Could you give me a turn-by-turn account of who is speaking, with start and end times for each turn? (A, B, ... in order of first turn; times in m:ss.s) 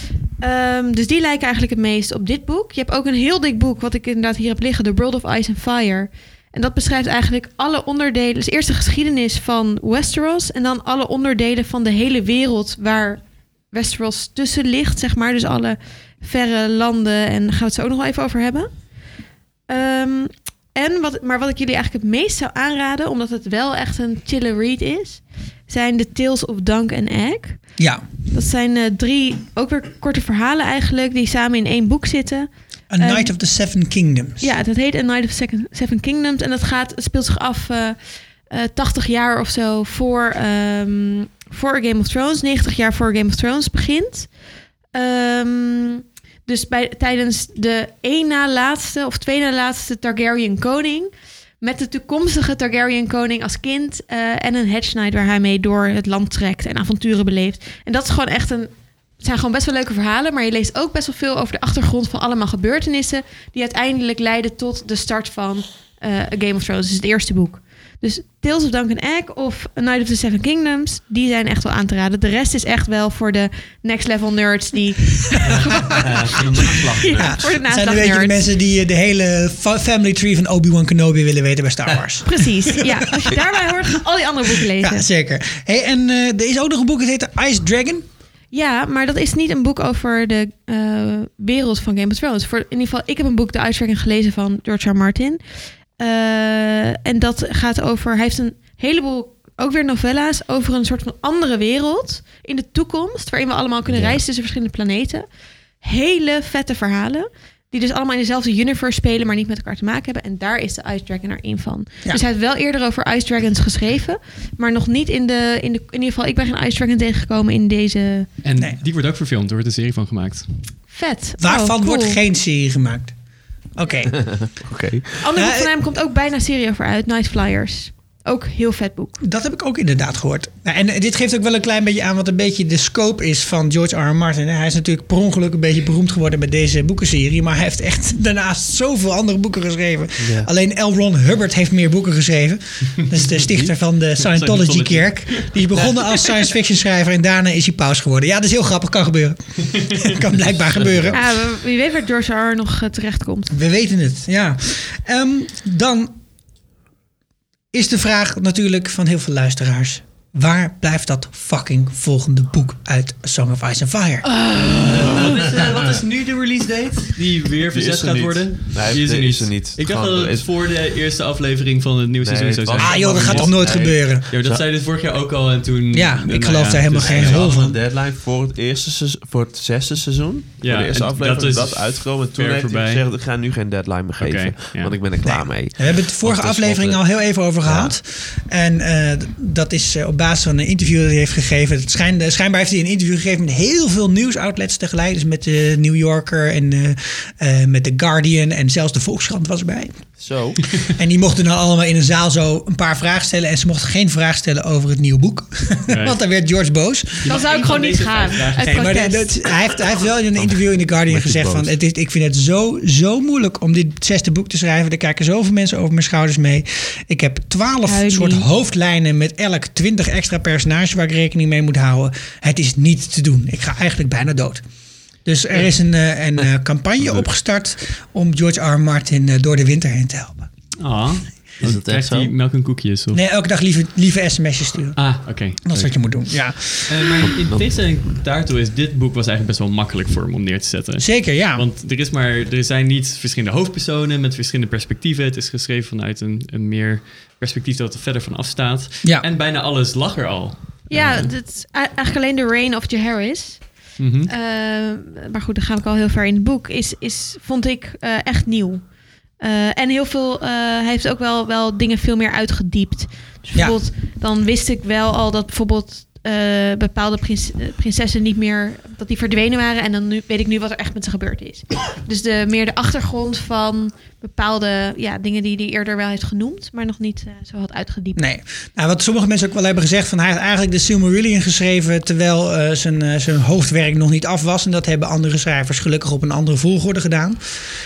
0:00.4-0:13.2 A
0:13.7-0:18.7 A
0:19.7-0:27.6 A
0:27.8-0:28.0 B
0:28.3-0:32.5 A
0:32.9-0:34.5 B
0:33.0-0:33.3 A
0:34.4-0:38.0 A
0:38.5-0:44.3 A
0:44.9-1:18.4 A
1:15.9-1:17.4 C
1:17.1-1:23.4 B
1:22.2-1:25.0 A
1:24.8-1:28.0 B
1:28.5-1:35.4 A
1:36.0-1:45.2 A
1:43.9-1:44.2 C
1:45.8-1:58.3 A
1:58.4-2:00.5 D
2:00.9-2:02.2 A
2:01.4-2:03.1 B
2:03.8-2:04.4 B
2:04.1-2:05.1 C
2:05.2-2:09.2 A
2:05.3-2:05.7 B
2:09.2-2:31.3 B
2:20.2-2:20.5 C
2:24.2-2:26.3 D
2:30.8-2:31.1 C
2:31.1-2:33.5 A
2:33.5-2:36.1 B
2:37.7-2:44.3 B
2:44.3-2:57.6 D
2:45.0-2:45.8 C
2:47.7-2:50.5 C
2:52.2-2:54.6 C
2:52.8-2:54.2 B
2:55.9-2:57.8 B
2:57.0-3:07.0 C
3:00.6-3:03.0 D
3:04.2-3:05.0 D
3:05.2-3:20.0 B
3:07.6-3:07.9 C
3:20.2-3:20.8 C
3:20.8-3:27.4 B
3:25.9-3:26.2 D
3:27.2-3:29.0 D
3:27.2-3:29.5 A
3:28.6-3:44.6 B
3:30.4-3:31.7 C
3:37.8-3:38.5 A
3:45.2-3:50.5 B
3:50.8-3:53.2 D
3:51.6-3:52.3 C
3:53.1-3:55.0 B
3:55.0-3:55.9 D
3:55.6-3:57.1 B
3:56.7-4:11.3 D
3:57.2-3:57.6 C
4:01.0-4:01.6 B
4:10.9-4:13.6 A
4:14.0-4:14.3 D
4:14.3-4:18.8 A
4:19.4-4:38.2 A
4:38.2-4:47.4 B